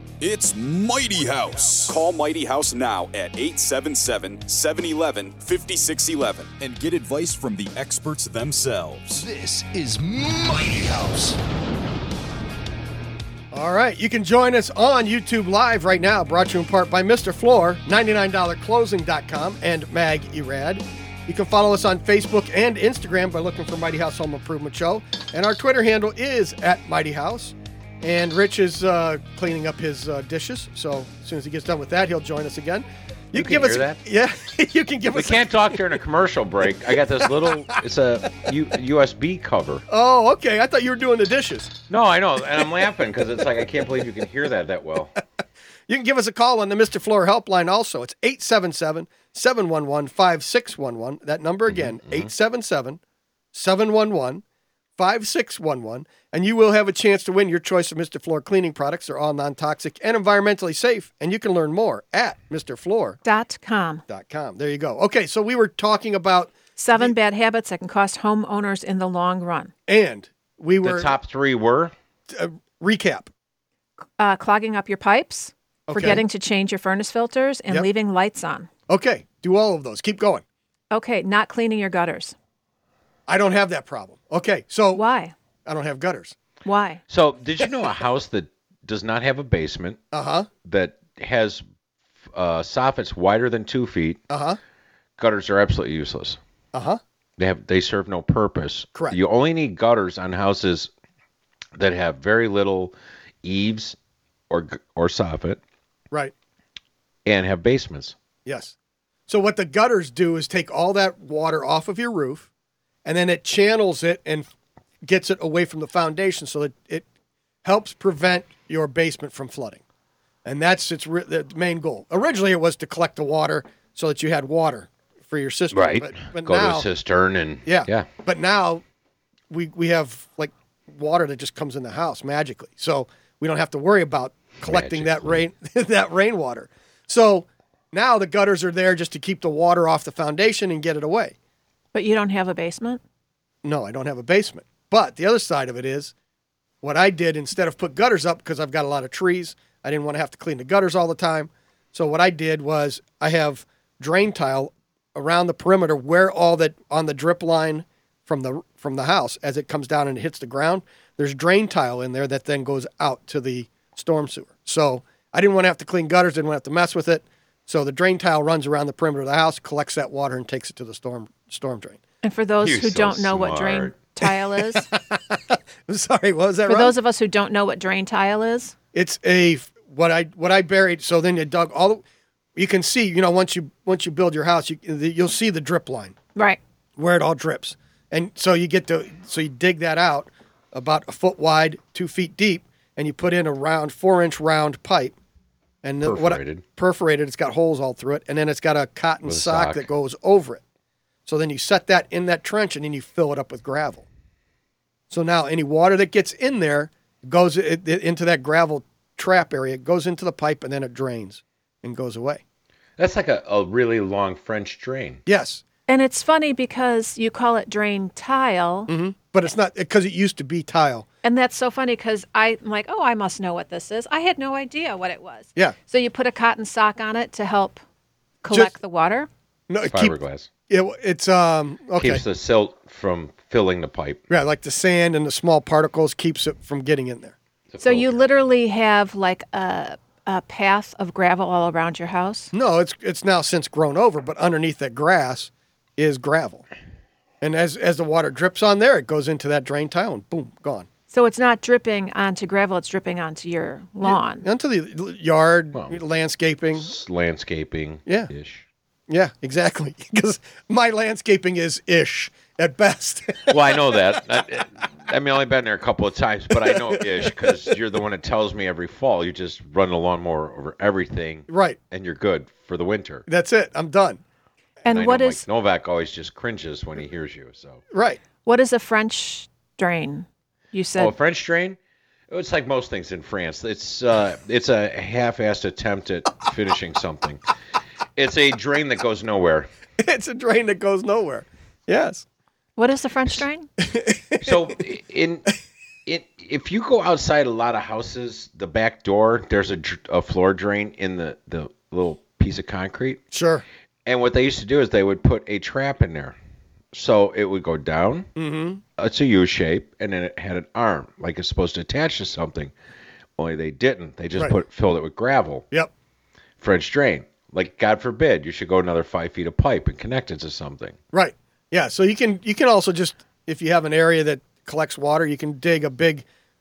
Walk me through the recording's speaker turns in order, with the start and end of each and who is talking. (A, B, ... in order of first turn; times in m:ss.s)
0:00.2-0:09.2 A
0:09.1-0:11.4 B
0:13.5-0:35.8 C
0:33.3-0:34.0 D
0:35.1-0:39.8 D
0:39.9-0:41.7 C
0:41.9-0:45.1 D
0:45.9-0:53.0 C
0:51.7-0:52.3 D
0:53.5-0:54.4 C
0:55.0-1:03.2 C
1:03.2-1:04.0 E
1:04.1-1:07.1 C
1:06.8-1:09.7 E
1:09.9-1:11.1 C
1:10.8-1:11.9 D
1:12.3-1:13.3 C
1:14.2-1:18.7 E
1:15.9-1:16.2 C
1:18.9-1:20.4 C
1:20.9-1:22.3 E
1:23.3-1:25.0 C
1:24.9-1:25.3 E
1:25.6-1:26.3 C
1:26.6-1:27.0 E
1:27.1-1:30.0 D
1:30.1-1:30.5 C
1:30.6-1:31.6 D
1:32.3-1:34.2 D
1:34.3-1:34.6 C
1:35.2-1:36.4 D
1:36.7-1:37.0 C
1:37.4-1:40.9 D
1:41.8-1:44.0 D
1:44.5-1:45.6 D
1:47.2-1:48.1 D
1:48.4-1:48.7 C
1:49.3-1:52.5 C
1:53.0-1:54.5 C
1:55.0-1:57.0 C
1:57.6-1:59.8 C
2:00.4-2:06.8 C
2:05.7-2:08.1 D
2:07.6-2:08.8 C
2:09.5-2:21.3 C
2:14.6-2:15.4 D
2:21.9-2:23.0 E
2:23.6-2:26.1 C
2:26.8-2:52.0 C
2:52.2-2:54.9 E
2:52.6-2:54.0 D
2:54.6-2:56.9 C
2:56.7-2:58.7 E
2:58.9-3:02.0 C
3:02.6-3:06.2 C
3:07.0-3:15.1 C
3:15.8-3:20.6 C
3:16.0-3:16.6 D
3:19.2-3:19.9 D
3:21.2-3:24.0 C
3:25.1-3:32.4 C
3:33.0-3:35.2 D
3:35.3-3:35.6 C
3:35.9-3:38.9 E
3:38.9-3:41.0 C
3:41.2-3:47.8 E
3:48.4-3:49.3 E
3:49.7-3:50.1 C
3:49.8-3:50.5 D
3:50.7-3:52.2 C
3:52.0-3:54.2 D
3:54.3-3:57.3 C
3:57.7-3:58.1 D
3:57.8-4:02.5 E
4:02.5-4:06.7 C
4:07.4-4:10.9 C
4:11.1-4:14.4 E
4:14.0-4:16.9 C
4:15.7-4:16.0 D
4:16.8-4:18.6 D
4:19.1-4:23.8 C
4:23.5-4:33.2 D
4:26.6-4:27.3 C
4:31.5-4:31.8 C
4:33.3-4:34.2 C
4:34.8-4:35.4 E
4:34.9-4:37.8 D
4:37.9-4:38.2 C
4:38.4-4:41.1 E
4:41.0-4:41.8 D
4:42.3-4:47.4 D
4:48.2-4:49.7 D
4:50.0-4:52.2 C
4:52.8-4:53.7 E
4:53.8-4:54.6 C
4:54.4-4:55.4 D
4:56.0-5:03.2 D
5:03.3-5:03.6 C
5:04.0-5:06.3 D
5:06.9-5:08.3 D
5:08.4-5:08.8 C
5:09.0-5:12.7 D
5:13.4-5:15.6 D
5:16.6-5:21.0 D
5:21.1-5:26.2 C